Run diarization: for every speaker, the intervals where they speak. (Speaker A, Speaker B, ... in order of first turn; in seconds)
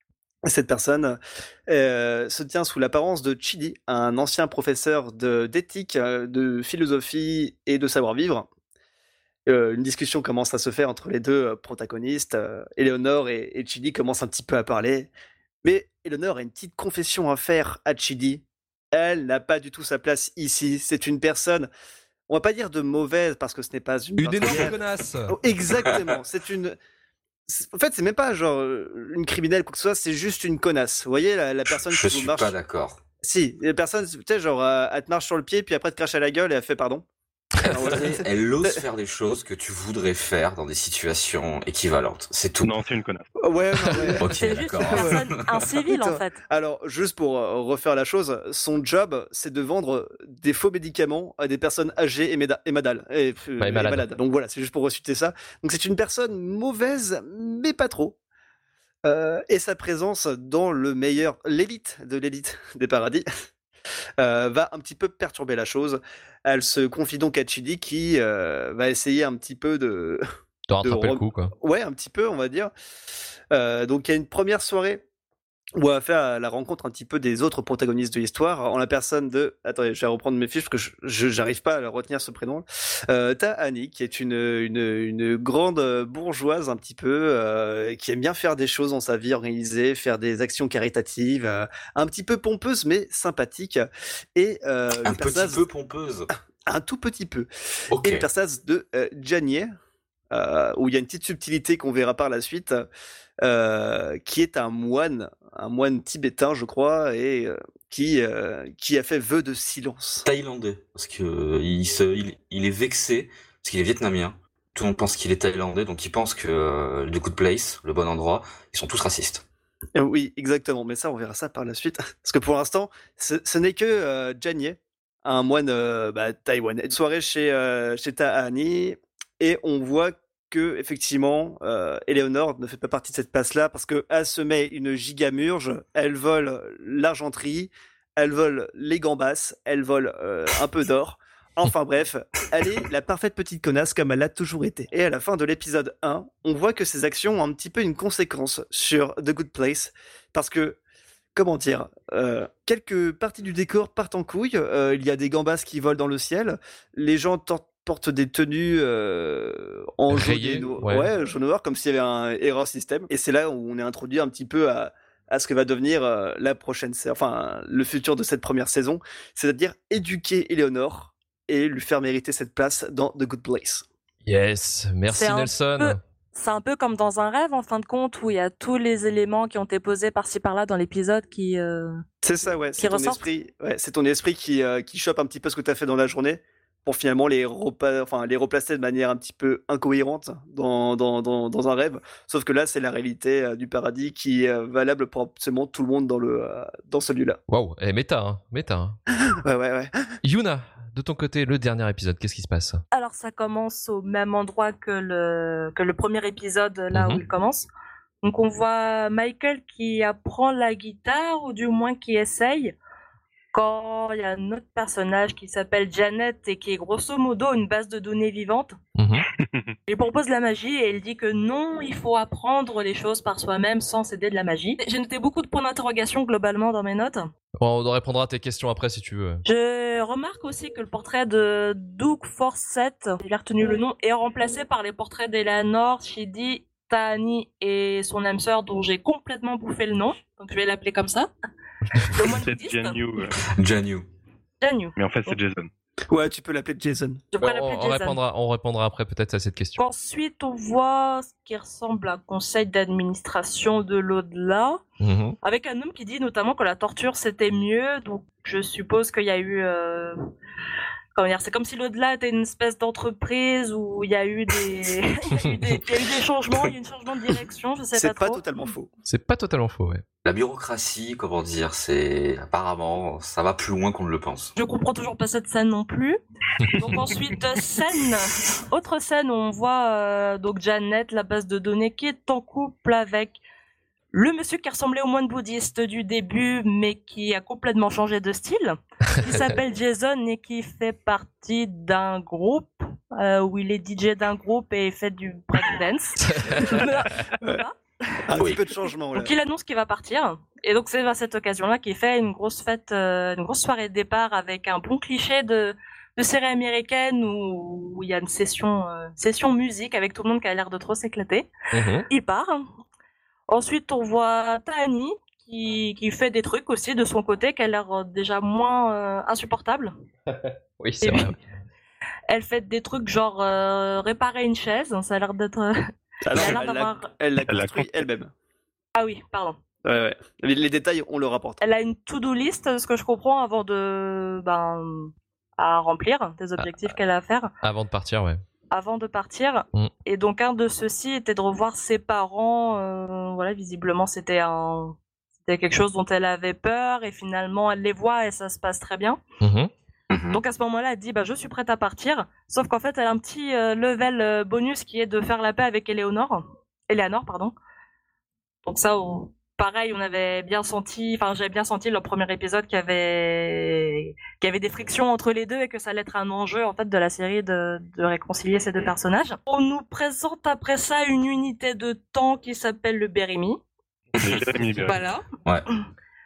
Speaker A: 0.5-8.5, 9.5-15.1, 15.6-21.7, 22.3-26.8, 27.5-32.5, 33.2-37.1, 37.6-38.8, 43.4-44.3, 44.9-45.2, 45.9-58.2, 59.0-63.3, 64.2-70.2, 70.8-72.7, 73.5-75.0, 75.8-95.6, 96.7-99.7, 100.3-102.9, 103.4-110.3, 120.0-150.8, 151.3-173.8, 182.2-197.4, 199.3-200.0, 246.1-247.2, 267.9-268.9, 296.6-296.8, 298.3-299.3, 326.2-328.3, 329.9-331.6
Speaker B: 24.2-25.4, 53.6-54.1, 70.7-71.5, 160.1-161.1, 174.3-176.0, 197.5-199.0, 200.2-202.8, 206.9-207.2, 219.0-219.3, 227.6-229.4, 241.9-242.2, 247.4-249.8, 255.0-255.4, 269.1-270.0, 296.3-296.6, 311.7-312.1, 320.3-321.4, 337.6-338.4, 349.4-349.7
Speaker C: 31.7-33.0, 37.6-42.8, 44.2-45.3, 95.0-96.3, 97.9-98.2, 110.2-119.4, 243.5-244.1, 270.2-274.6, 298.4-298.6, 350.1-350.4, 374.2-374.4
Speaker D: 42.6-43.3, 219.4-219.7, 242.2-243.4, 245.0-245.7, 327.5-327.9, 374.2-375.0
Speaker E: 44.3-46.4, 175.1-181.9, 182.8-183.2, 202.9-207.7, 208.2-212.8, 213.5-218.8, 219.9-227.3, 229.4-241.3, 242.0-243.0, 244.6-245.4, 247.3-248.2, 249.8-254.8, 255.4-260.2, 261.1-268.4, 274.6-276.2, 276.7-283.4, 284.1-297.8, 299.1-311.5, 312.1-312.7, 313.5-319.9, 321.0-321.3, 322.3-325.7, 326.3-327.1, 328.9-329.6, 331.6-337.5, 338.7-349.2, 350.3-357.5, 358.7-373.6, 374.8-375.2